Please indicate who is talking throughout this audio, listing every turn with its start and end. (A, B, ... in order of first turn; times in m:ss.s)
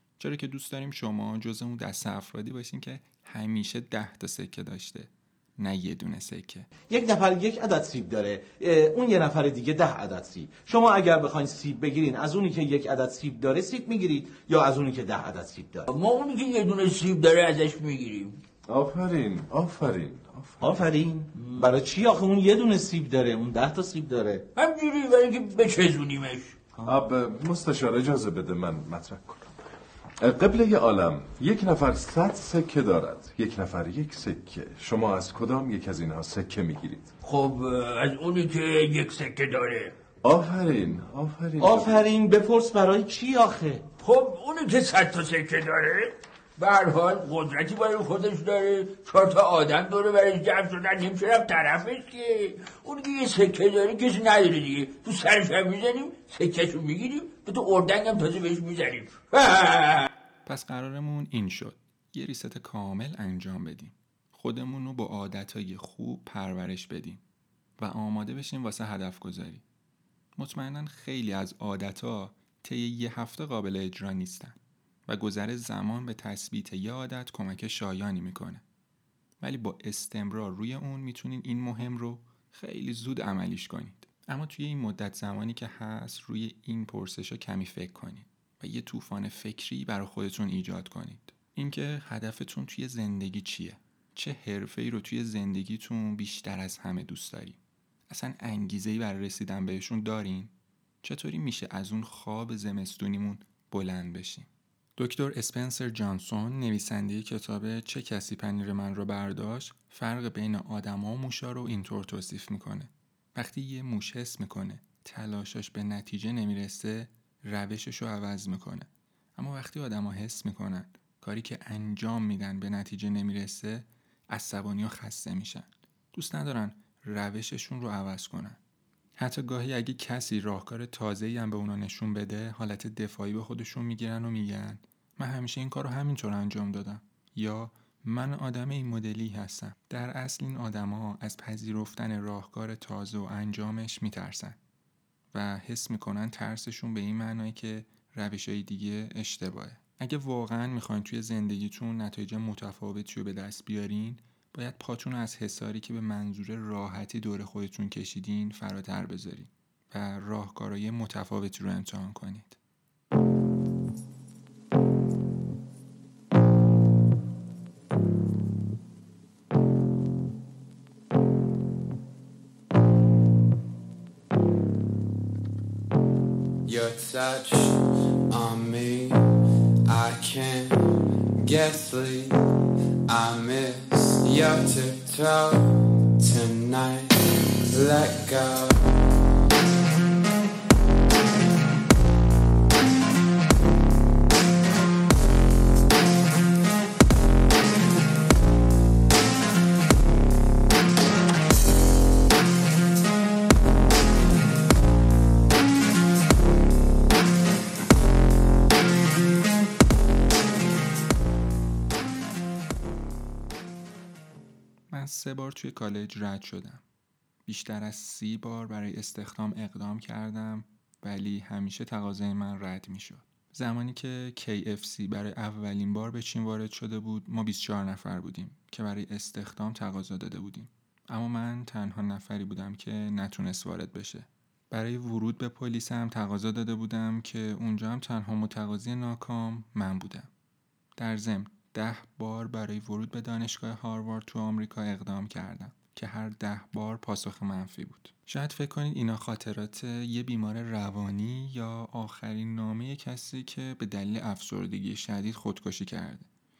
0:00.2-0:06.7 A
0:06.9-0:15.9 B
0:15.9-0:18.4 C
0:18.7-0:20.9 D
0:20.6-0:24.4 B
0:24.6-0:26.6 C
0:26.8-0:29.5 D
0:30.2-0:37.1 D
0:37.2-0:39.9 C
0:40.2-0:42.0 D
0:41.6-0:43.8 B
0:44.0-1:00.1 C
1:00.4-1:07.2 A
1:07.8-1:09.6 A
1:10.4-1:18.6 A
1:19.4-2:08.6 A
2:09.2-2:24.6 A
2:25.3-2:42.6 A
2:56.6-2:59.3 E
2:59.8-3:02.4 E
3:03.1-3:09.0 E
3:34.9-3:36.8 A
3:37.4-4:00.3 A
4:01.0-4:16.3 A